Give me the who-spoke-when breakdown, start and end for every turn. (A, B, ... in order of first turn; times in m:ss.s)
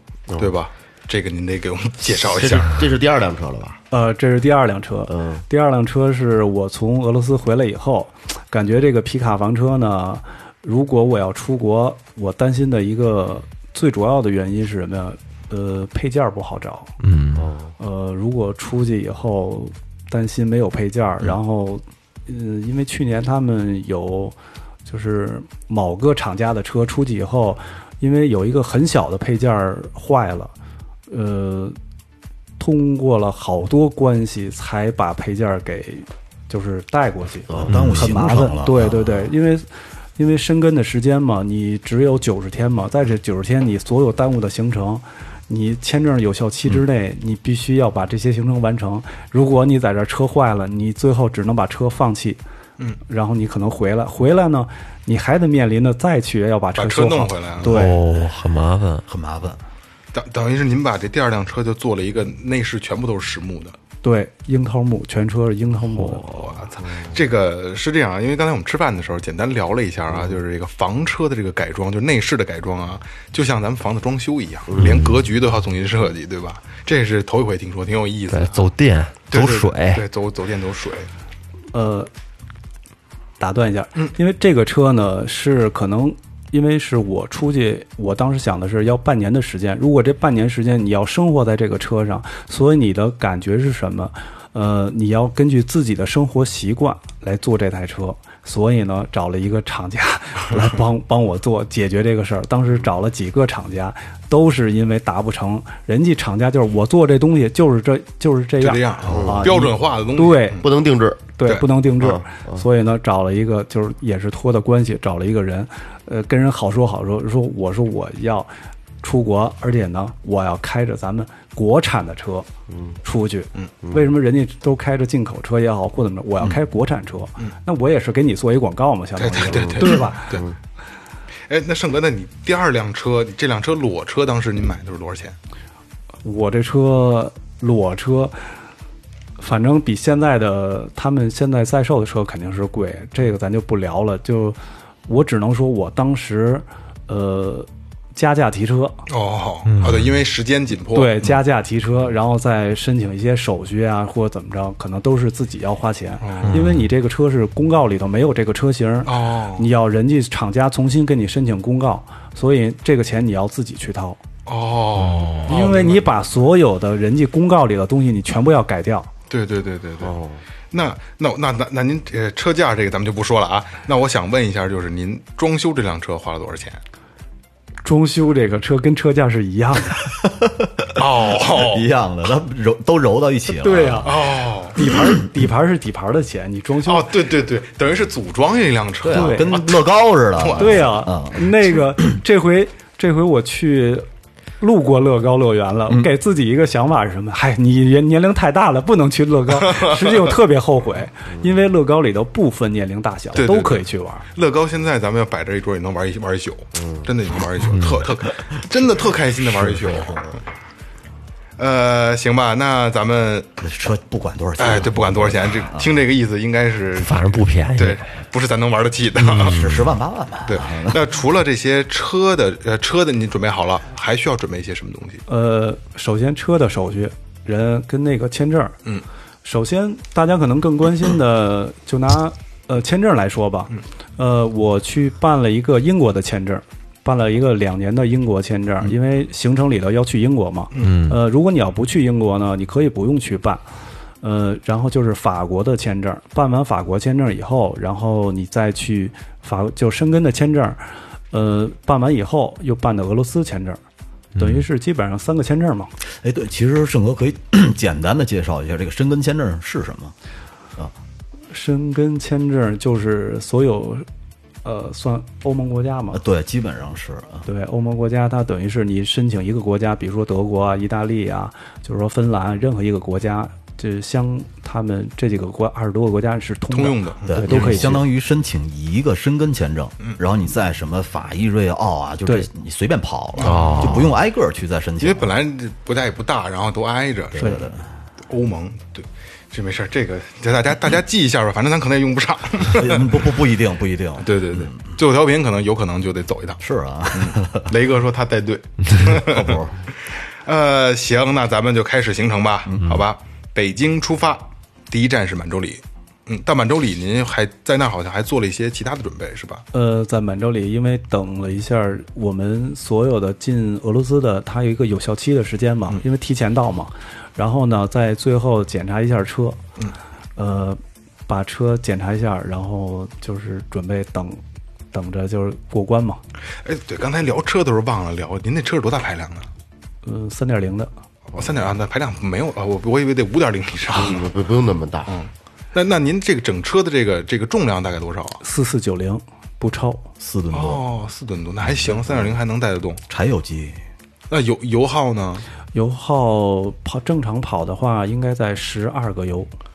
0:00.4-0:02.8 A
0:02.1-0:03.8 B
0:03.9-0:16.9 C
0:05.1-0:05.4 B
0:17.0-0:17.5 D
0:17.4-0:17.7 B
0:17.8-0:30.5 C
0:31.1-0:31.8 C
0:32.6-0:39.6 C
0:37.5-0:39.2 E
0:37.7-0:38.0 D
0:40.2-0:52.4 C
0:53.1-0:57.9 C
0:56.8-0:57.8 A
0:57.6-0:59.0 D
0:59.1-0:59.6 E
1:00.1-1:03.8 A
1:04.0-1:06.5 C
1:06.2-1:18.7 A
1:06.8-1:07.2 B
1:14.8-1:15.2 D
1:18.3-1:20.0 D
1:19.3-1:21.1 A
1:21.7-1:22.1 C
1:23.4-1:50.6 C
1:48.6-1:50.7 A
1:49.1-1:49.4 B
1:50.6-1:51.2 B
1:51.4-1:58.5 C
1:52.0-1:52.6 B
1:59.0-2:02.5 C
2:02.7-2:03.0 B
2:03.0-2:10.4 C
2:09.2-2:10.4 A
2:09.5-2:10.5 B
2:11.5-2:15.4 A
2:16.2-2:18.5 C
2:19.4-2:29.0 C
2:29.1-2:31.3 A
2:29.6-2:30.1 D
2:30.9-2:44.2 C
2:36.2-2:36.7 A
2:36.5-2:36.9 D
2:39.0-2:39.7 A
2:44.4-2:46.1 A
2:45.4-2:49.1 C
2:49.3-2:50.2 A
2:50.0-2:50.4 B
2:50.7-2:56.8 A
2:57.8-3:00.0 C
3:00.2-3:04.3 E
3:01.0-3:01.9 A
3:03.5-3:07.1 C
3:04.0-3:04.8 A
3:06.8-3:10.8 A
3:09.0-3:11.7 E
3:09.1-3:09.5 C
3:10.6-3:14.0 C
3:14.6-3:24.3 C
3:19.6-3:20.2 A
3:23.4-3:30.3 A
3:26.8-3:27.1 B
3:27.7-3:28.1 D
3:29.4-3:30.4 E
3:31.6-3:33.5 A
3:33.6-3:36.0 E
3:34.6-3:39.6 A
3:37.0-3:38.0 D
3:39.2-3:39.9 D
3:39.5-3:41.0 E
3:40.4-3:45.2 A
3:45.3-3:48.8 C
3:49.4-4:03.6 C
4:00.8-4:01.2 D
4:04.2-4:13.8 C
4:14.4-4:14.6 D
4:14.4-4:15.9 C
4:16.2-4:20.1 E
4:21.5-4:24.0 C
4:24.6-4:26.2 C
4:26.1-4:27.5 E
4:27.4-4:38.0 C
4:36.7-4:37.9 A
4:37.2-4:45.3 E
4:43.4-4:44.0 A
4:43.4-4:44.1 D
4:45.0-4:47.5 A
4:47.3-4:47.9 E
4:47.4-4:47.6 C
4:48.3-4:53.2 A
4:52.7-4:54.8 E
4:54.2-4:56.6 A
4:56.6-4:57.7 E
4:57.1-4:59.6 A
4:59.0-4:59.8 E
5:00.4-5:09.6 A
5:02.7-5:03.0 E
5:09.7-5:19.6 C
5:20.4-5:24.4 C
5:24.9-5:26.2 C
5:26.6-5:29.5 A
5:30.0-5:30.9 C
5:31.3-5:34.3 A
5:33.9-5:35.1 B
5:35.1-5:38.4 A
5:38.4-5:40.1 C
5:40.2-5:40.8 E
5:40.5-5:43.0 A
5:41.7-5:42.3 E
5:43.1-5:43.8 E
5:44.3-5:45.4 A
5:45.7-5:49.5 C